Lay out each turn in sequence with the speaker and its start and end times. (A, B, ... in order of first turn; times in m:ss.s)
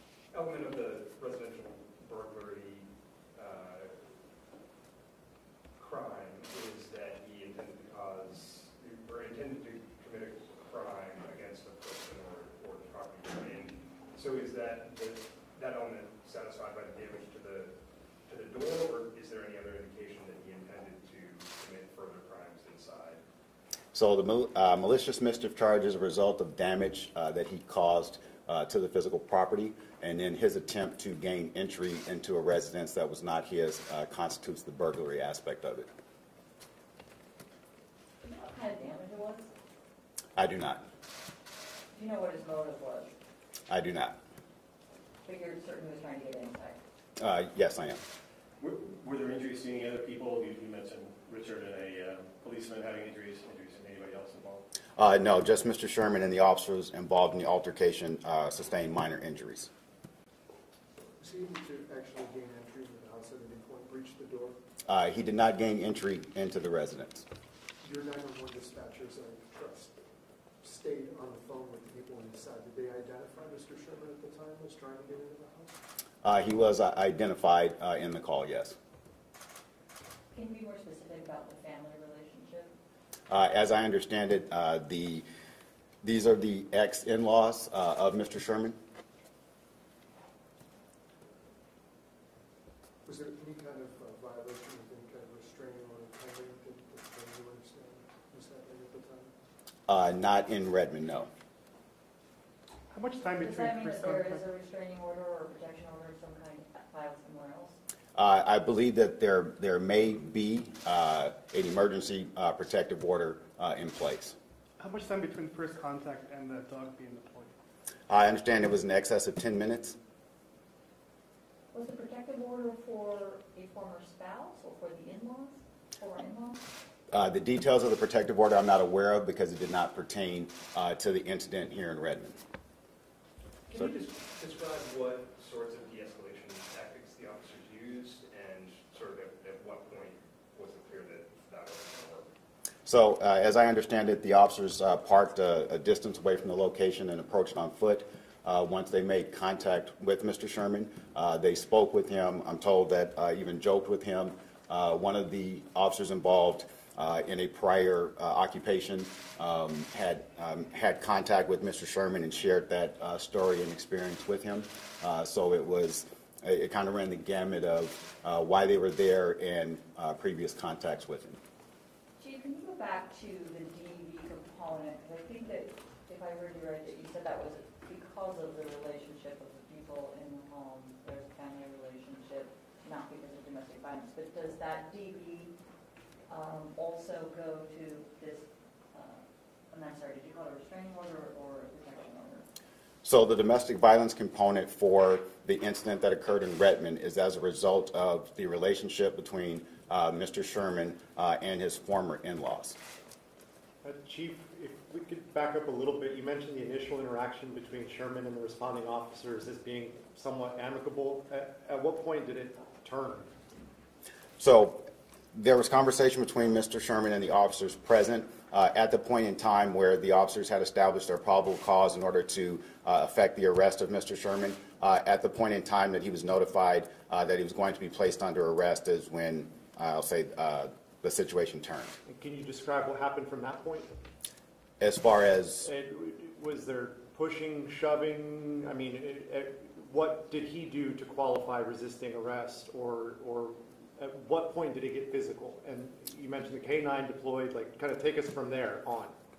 0:00.3-0:04.1 A
0:05.8-0:23.2 A
0:23.9-0:35.9 B
0:38.2-0:39.5 C
0:40.4-0:40.8 B
0:41.9-0:43.1 C
0:43.7-0:44.2 B
0:45.2-0:46.8 C
0:47.2-0:48.0 B
0:48.6-0:54.7 D
0:55.0-0:59.7 B
1:01.2-1:04.6 E
1:04.9-1:07.3 B
1:07.8-1:10.0 E
1:10.6-1:15.8 E
1:16.2-1:18.8 B
1:20.3-1:22.7 C
1:23.3-1:25.2 B
1:26.0-1:28.8 B
1:33.0-1:39.3 E
1:39.9-1:41.3 B
1:42.9-1:44.4 F
1:43.4-1:47.8 C
1:48.2-1:54.4 B
1:54.8-1:57.5 F
1:58.1-2:00.0 B
2:01.7-2:06.6 C
2:07.1-2:12.4 B
2:13.7-2:22.3 A
2:22.9-2:51.4 B
2:52.2-3:05.5 C
3:06.3-3:12.5 C
3:13.0-3:22.8 B
3:23.8-3:33.3 G
3:34.4-3:52.0 B
3:52.0-3:53.9 G
3:54.8-3:55.7 B
3:55.6-4:09.2 G